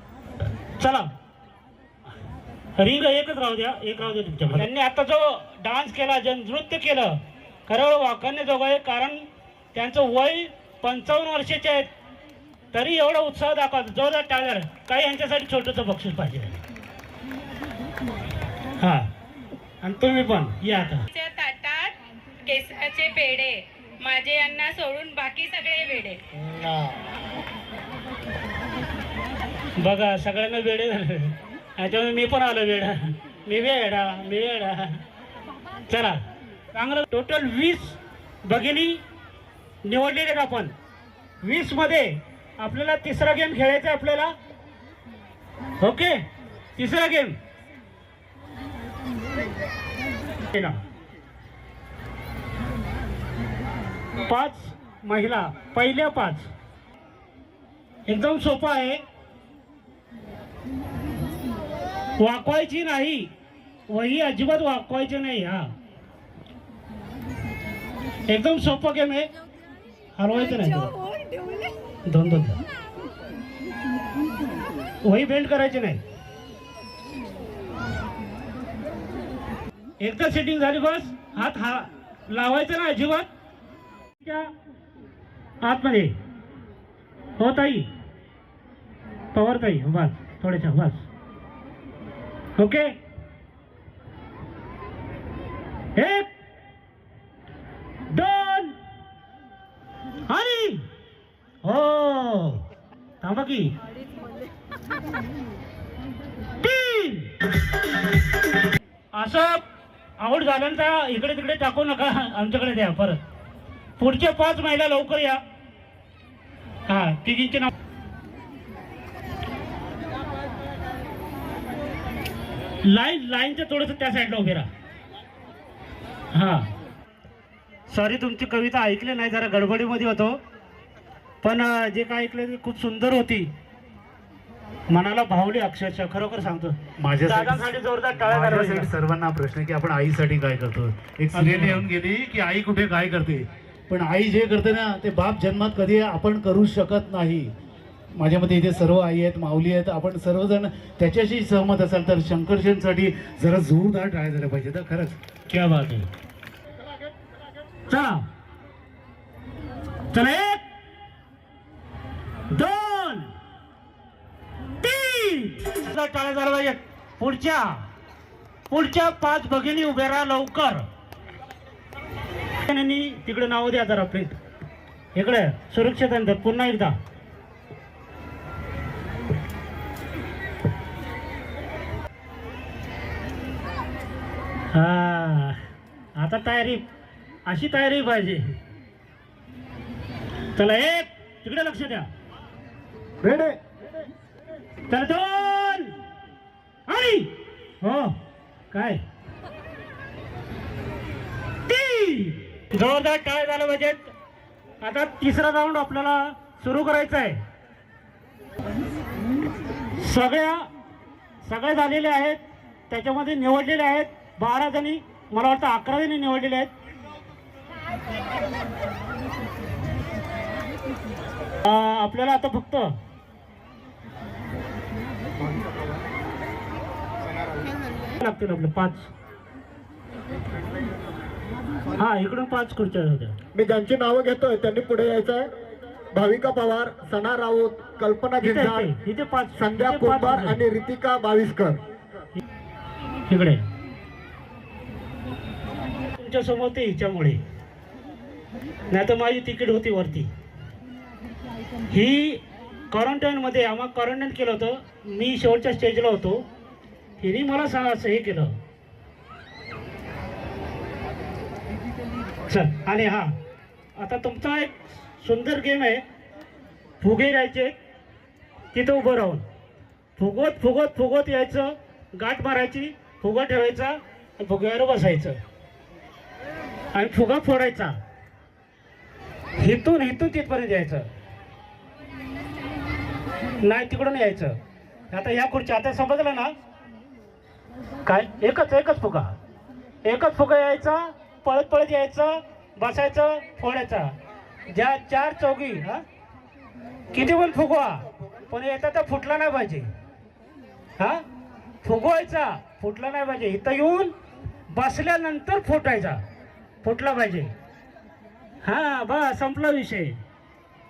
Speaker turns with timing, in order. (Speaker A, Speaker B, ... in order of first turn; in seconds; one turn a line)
Speaker A: 0.8-1.1
Speaker A: 2.8-11.9
Speaker A: 12.7-16.6
Speaker A: 18.8-19.1
Speaker A: 19.8-21.0
Speaker B: 21.1-21.9
Speaker B: 22.4-26.2
Speaker A: 29.8-35.0
Speaker A: 35.9-36.2
Speaker A: 36.7-39.0
Speaker A: 39.8-40.7
Speaker A: 41.4-44.3
Speaker A: 45.8-46.2
Speaker A: 46.8-47.4
Speaker A: 50.5-50.8
Speaker A: 54.2-56.5
Speaker A: 58.1-59.0
Speaker A: 62.2-63.3
Speaker A: 63.9-65.7
Speaker A: 68.3-69.3
Speaker A: 70.2-70.9
Speaker A: 72.0-72.6
Speaker A: 75.0-76.0
Speaker A: 80.0-83.3
Speaker A: 84.2-84.5
Speaker A: 85.6-86.2
Speaker A: 87.4-87.9
Speaker A: 89.3-91.0
Speaker A: 92.6-93.0
Speaker A: 96.0-96.3
Speaker A: 98.1-98.8
Speaker A: 100.3-100.8
Speaker A: 101.6-102.6
Speaker A: 103.2-103.7
Speaker A: 106.6-107.3
Speaker A: 109.1-109.6
Speaker A: 110.2-113.2
Speaker A: 114.0-115.4
Speaker A: 116.9-117.7
Speaker A: 122.8-124.7
Speaker A: 126.3-126.7
Speaker A: 127.9-130.4
Speaker A: 131.4-133.5
Speaker A: 134.9-138.9
Speaker C: 137.0-147.5
Speaker A: 141.3-141.8
Speaker C: 148.1-155.2
Speaker A: 155.5-156.1
Speaker A: 157.9-158.2
Speaker A: 160.1-160.6
Speaker A: 162.5-163.3
Speaker A: 164.8-167.8
Speaker A: 168.7-170.9
Speaker A: 172.6-174.4
Speaker A: 175.1-176.9
Speaker A: 184.7-185.6
Speaker A: 186.2-186.8
Speaker A: 187.5-188.6
Speaker A: 190.5-192.1
Speaker D: 193.2-193.6
Speaker A: 194.9-195.9
Speaker A: 196.9-198.2
Speaker A: 198.7-199.0
Speaker A: 201.7-204.1
Speaker A: 204.8-207.4
Speaker A: 210.0-210.7
Speaker A: 211.4-216.7
Speaker A: 221.6-222.9
Speaker D: 225.4-226.0
Speaker A: 228.2-229.1
Speaker A: 231.9-233.3
Speaker D: 233.5-235.5
Speaker D: 236.1-238.9
Speaker A: 238.4-240.6
Speaker D: 239.6-241.8
Speaker A: 243.3-243.6
Speaker A: 246.2-247.4
Speaker A: 248.9-250.3
Speaker A: 251.9-256.4
Speaker A: 257.2-258.5
Speaker A: 262.5-263.3
Speaker A: 264.0-266.0
Speaker A: 267.0-267.8
Speaker A: 268.7-269.4
Speaker A: 270.2-275.4
Speaker A: 276.9-277.9
Speaker A: 279.6-281.1
Speaker A: 283.6-284.6
Speaker A: 285.1-286.5
Speaker A: 288.1-289.3
Speaker A: 290.0-294.1
Speaker A: 294.7-296.0
Speaker A: 297.1-299.9
Speaker A: 301.0-301.2
Speaker A: 301.8-304.1
Speaker A: 304.7-306.2
Speaker A: 306.8-307.5
Speaker A: 308.6-310.2